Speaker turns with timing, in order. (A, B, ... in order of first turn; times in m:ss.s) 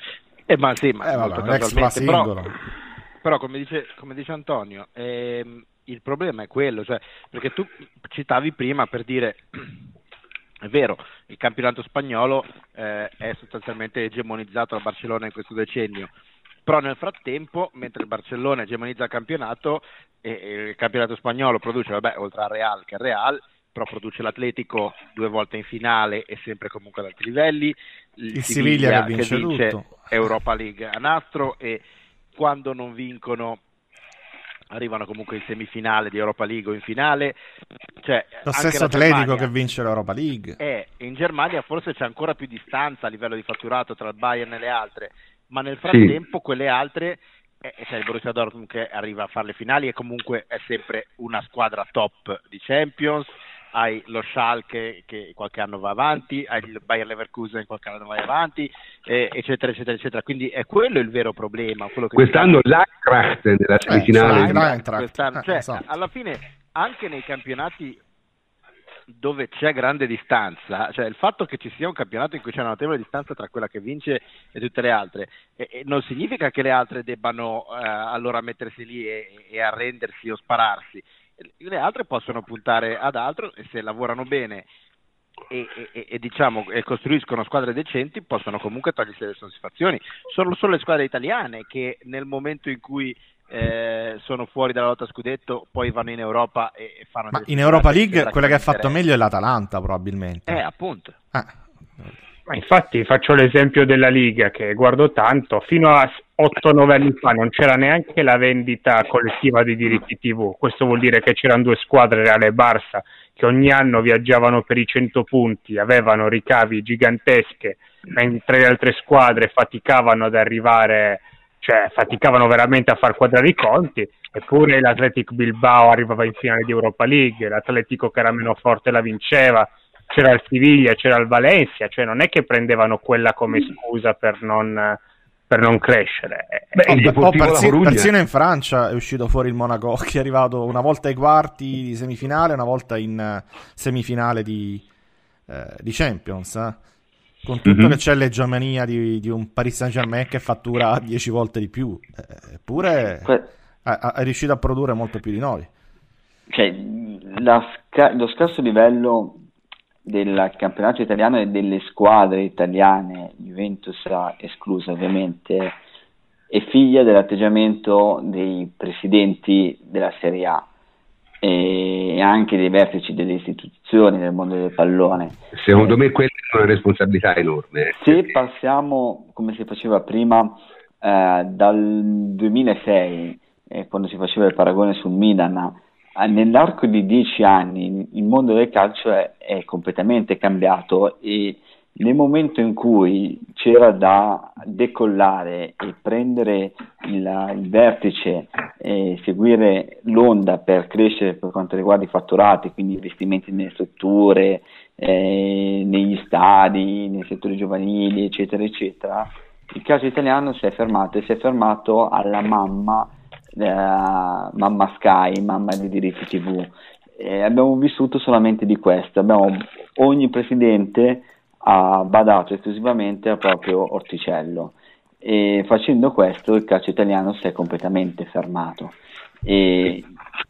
0:00.5-0:02.3 A
0:01.0-0:02.5 B
0:03.2-0:09.6 A
0:10.6-0:16.1 A
0:16.6-0:31.8 A
0:28.3-0:30.0 B
0:32.4-0:33.6 A
0:34.7-0:37.4 A
0:38.0-0:39.5 A
0:38.4-0:40.6 B
0:40.6-1:02.6 A
0:45.8-0:46.2 C
1:02.1-1:04.7 C
1:03.9-1:05.8 B
1:04.2-1:08.0 A
1:09.1-1:21.0 A
1:21.6-1:24.6 A
1:25.5-1:38.9 A
1:37.3-1:40.6 B
1:40.5-1:41.1 A
1:42.5-2:17.0 D
2:16.7-2:18.1 C
2:16.9-2:24.8 B
2:25.5-2:26.8 B
2:27.4-2:33.3 B
2:27.6-2:28.0 C
2:33.2-2:33.5 E
2:33.8-2:35.7 B
2:36.5-2:39.4 E
2:40.0-2:45.8 E
2:46.5-2:50.7 E
2:51.4-2:55.9 E
2:55.5-2:58.3 C
2:57.9-3:50.1 E